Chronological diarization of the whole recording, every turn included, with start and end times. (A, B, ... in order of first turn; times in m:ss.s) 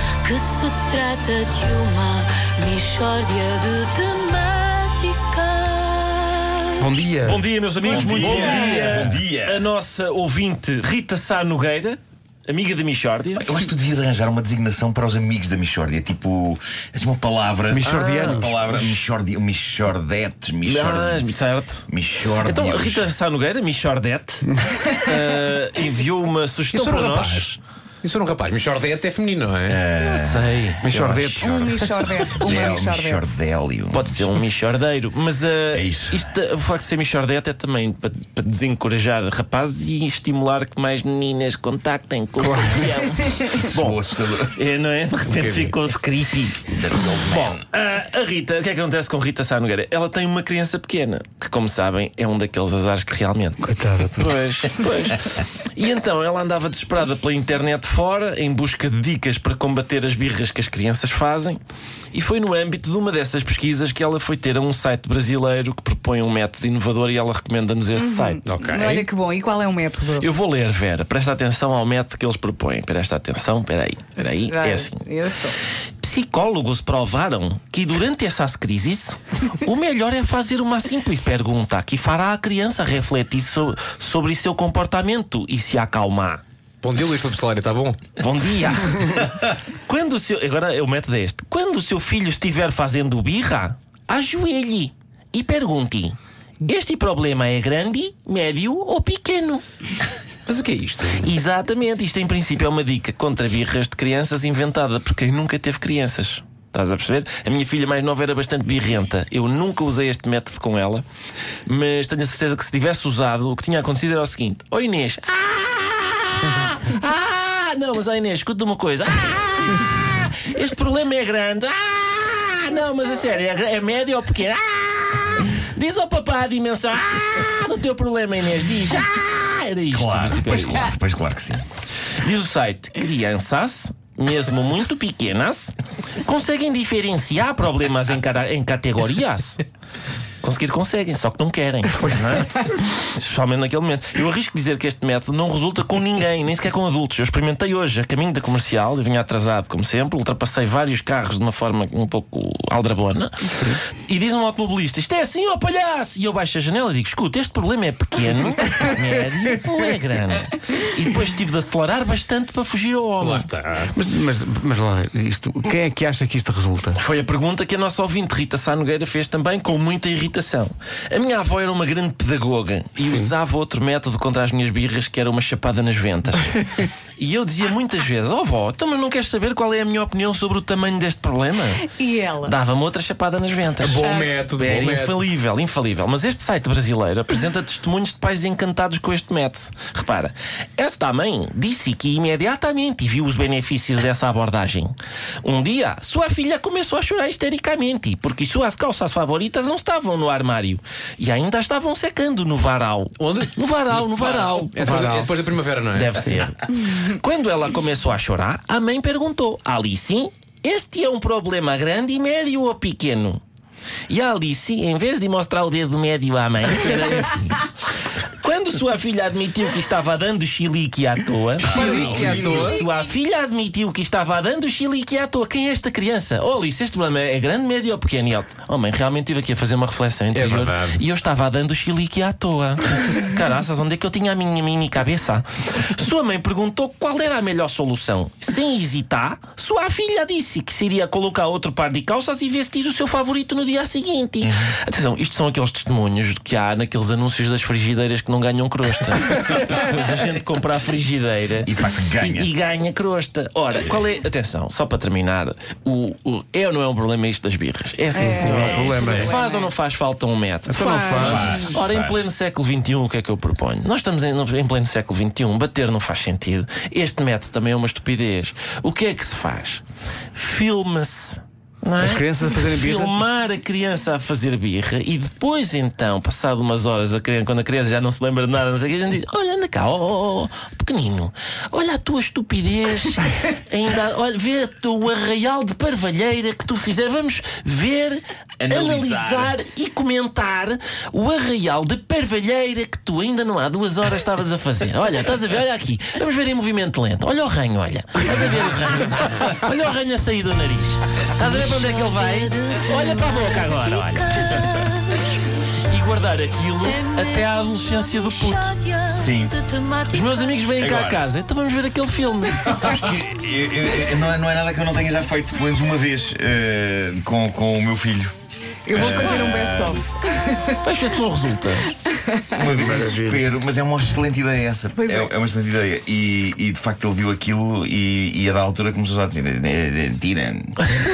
0:00.2-0:06.8 A
0:06.8-0:07.4 B
0:07.3-0:13.7 C
0:07.8-0:09.6 D
0:08.0-0:09.0 E
0:08.3-0:08.6 B
0:13.4-0:21.3 D
0:17.7-0:19.0 C
0:17.7-0:18.5 B
0:20.6-0:27.6 C
0:21.9-0:23.1 D
0:26.7-0:27.5 E
0:28.0-0:29.8 E
0:29.7-0:30.7 D
0:30.1-0:32.1 C
0:30.8-0:31.7 B
0:31.4-0:33.3 F
0:32.3-0:34.3 D
0:33.9-1:01.6 C
0:35.7-0:36.2 D
0:42.4-0:42.9 B
0:43.4-0:44.6 D
0:45.2-0:45.8 E
0:46.6-0:47.6 D
0:53.6-0:54.3 B
1:02.1-1:08.4 C
1:08.0-1:10.3 F
1:08.4-1:09.1 E
1:10.2-1:15.1 C
1:14.2-1:15.5 F
1:16.0-1:26.4 C
1:26.8-1:28.0 E
1:28.2-1:39.6 C
1:40.5-1:41.3 E
1:41.2-1:51.0 C
1:51.6-2:11.0 C
2:09.9-2:11.6 D
2:12.2-2:19.6 C
2:20.4-2:43.5 C
2:22.0-2:22.4 B
2:43.2-2:43.9 E
2:43.9-2:47.0 B
2:47.0-3:01.9 C
2:53.0-2:53.3 B
3:02.0-3:02.4 F
3:02.4-3:25.2 C
3:03.8-3:05.2 E
3:04.0-3:04.3 F
3:23.2-3:26.5 E
3:24.8-3:25.3 B
3:25.9-3:33.4 C
3:34.1-4:29.8 C
3:41.6-3:42.8 E
3:41.6-3:42.7 D
3:50.3-3:51.0 E
4:04.4-4:04.8 D
4:11.6-4:12.5 D
4:18.1-4:19.6 F
4:18.1-4:19.3 B
4:18.5-4:18.9 E
4:20.6-4:21.5 B
4:21.2-4:22.3 D
4:30.3-5:05.2 C
4:32.0-4:33.2 B
4:48.6-4:49.5 D
5:01.4-5:05.4 A
5:05.9-5:08.8 C
5:06.8-5:10.7 A
5:09.1-5:09.5 D
5:10.1-5:13.2 C
5:10.8-5:11.2 D
5:12.7-5:18.3 D
5:18.9-5:20.8 F
5:18.9-5:20.0 D
5:19.2-5:19.5 C
5:20.8-5:21.9 C
5:22.1-5:22.6 F
5:22.5-5:31.0 D
5:22.7-5:23.5 B
5:25.0-5:25.3 F